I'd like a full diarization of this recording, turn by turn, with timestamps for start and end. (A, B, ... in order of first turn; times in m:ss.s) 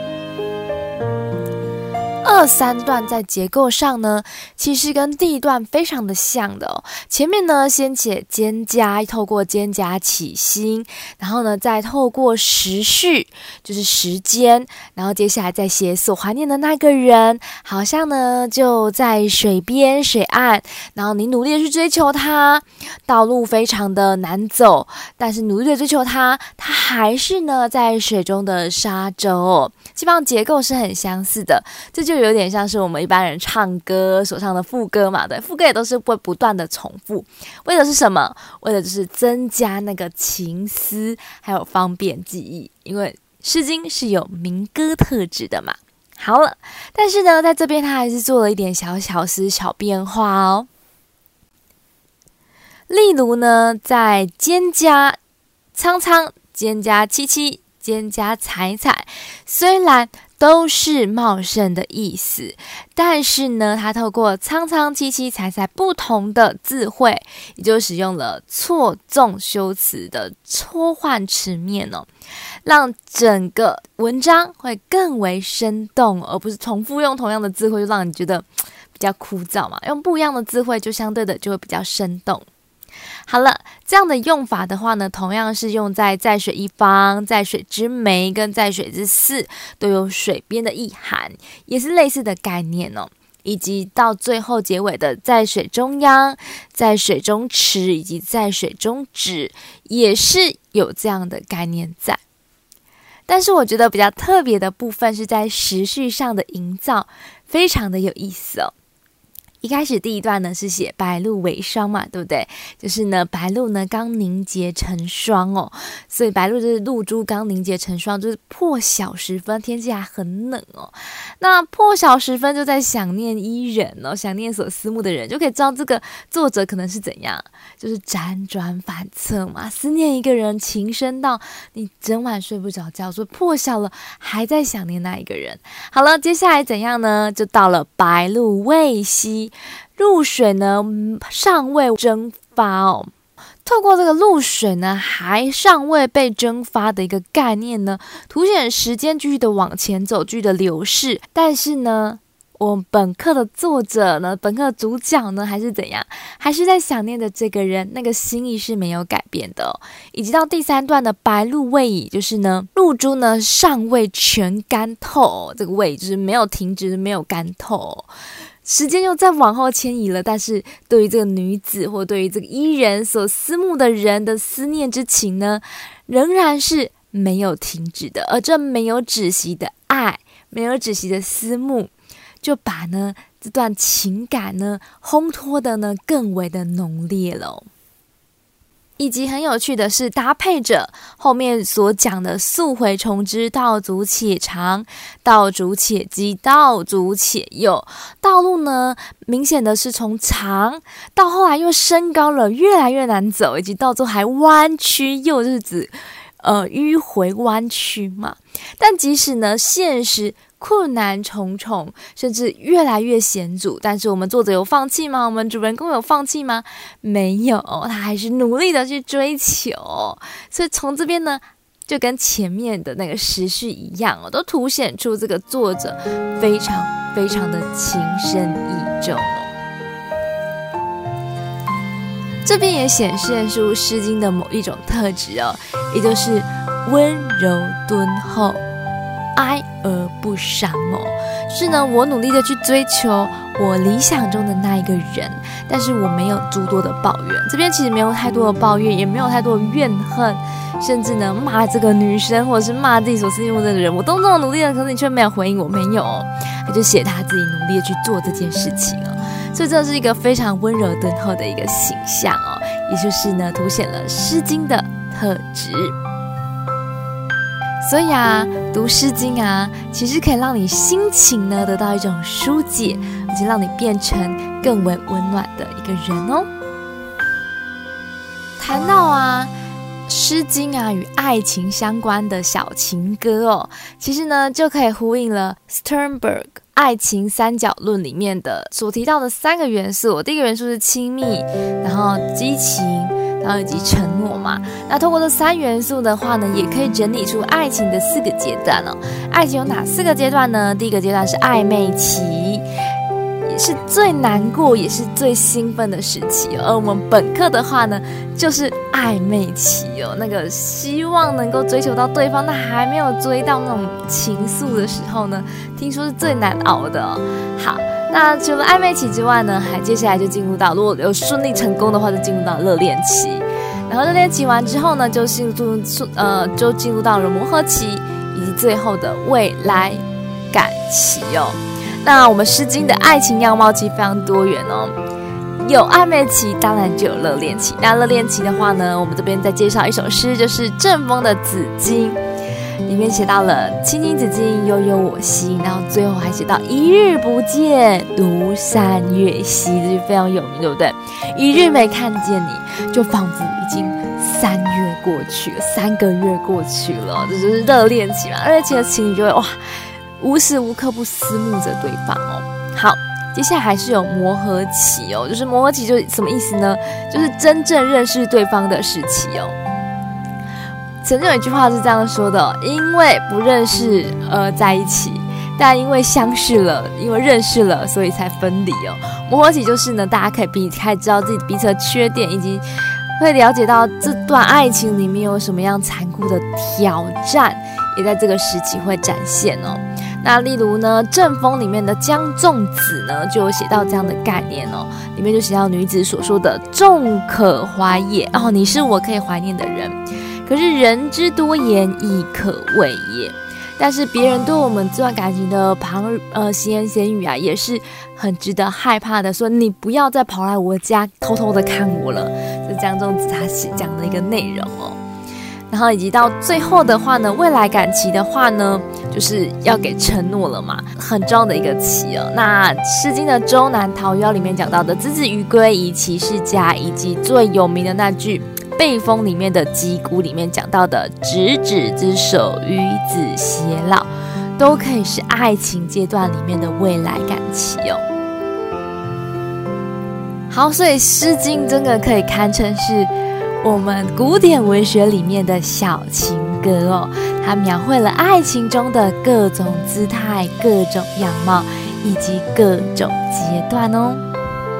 0:02.2-0:50.7 A
0:52.9-0:55.2 A
0:55.8-1:12.1 A
1:12.6-1:22.5 A
1:23.3-1:42.2 A
1:43.3-1:48.7 A
1:49.6-2:23.1 A
2:23.6-2:48.1 A
2:48.6-3:01.9 A
3:02.4-3:07.7 A
3:09.0-3:49.5 A
3:52.4-3:58.6 A
3:59.4-4:26.0 A
4:27.8-4:36.5 A
4:38.6-4:39.5 A
4:40.1-5:02.6 A
5:03.5-5:34.9 A
5:35.6-5:42.2 A
5:42.9-5:59.6 A
6:00.2-6:09.6 A
6:11.0-6:22.6 A
6:23.2-6:55.0 A
6:55.7-7:14.1 A
7:14.6-7:18.0 A
7:20.5-7:23.1 A
7:23.6-7:34.2 A